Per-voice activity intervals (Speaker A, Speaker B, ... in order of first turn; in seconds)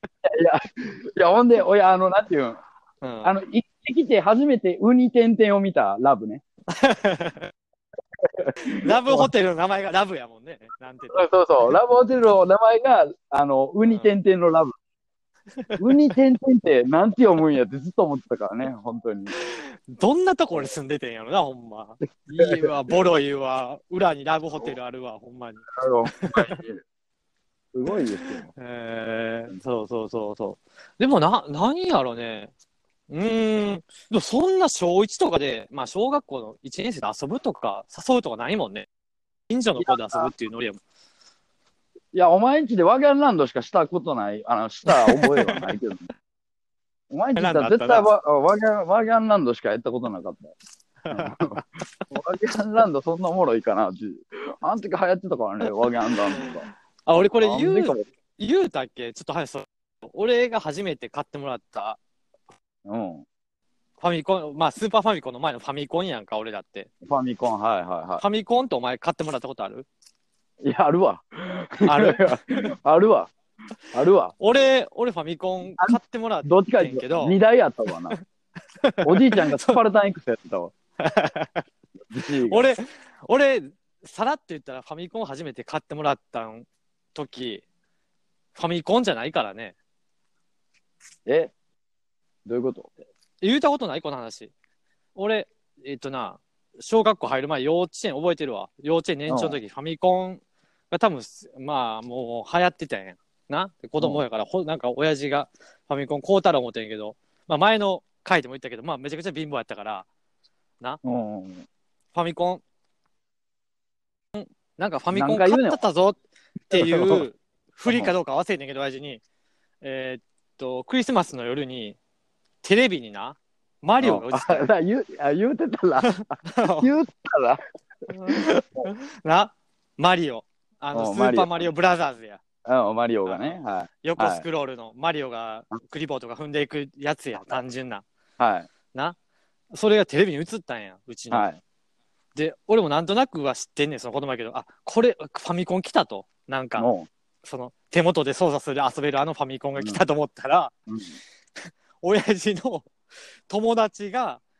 Speaker A: 0.2-2.6, 3.2-6.4, 8.2-9.3, 11.1-14.7, 15.8-19.3, 22.4-22.7, 25.8-26.8, 27.7-28.5, 39.8-40.3, 42.1-46.1, 47.1-50.5, 51.1-56.7, 57.4-58.0, 62.9-63.3, 67.0-68.2, 70.6-73.3, 73.9-74.4, 75.8-78.2, 79.0-80.8, 82.1-82.7, 91.3-91.5, 92.5-92.9, 99.3-99.6, 111.0-111.7, 115.1-115.8, 116.7-117.2, 117.9-118.1, 124.0-126.1, 126.8-127.6, 128.3-128.9, 130.9-131.7, 132.7-134.4, 138.4-138.7, 141.3-141.6, 146.8-147.1, 150.9-151.2
Speaker B: 3.0-3.3, 6.7-7.5, 8.6-11.8, 13.8-14.1, 15.6-15.9, 19.3-26.6, 28.2-32.5, 33.1-38.9, 39.5-40.8, 44.9-45.7, 47.4-48.1, 51.0-51.6, 56.1-56.5, 57.1-62.0, 64.0-66.9, 68.2-69.9, 71.8-72.7, 74.4-77.4, 78.8-79.8, 81.0-81.6, 82.5-87.6, 88.5-89.8, 93.4-94.5, 95.2-110.1, 112.1-112.6, 114.3-116.2, 116.7-119.2, 119.8-122.0, 122.6-124.7, 126.0-126.9, 128.1-132.4, 133.3-138.1, 138.9-139.2, 139.7-141.5, 142.3-146.9, 147.4-150.7, 152.0-152.9, 153.5-154.4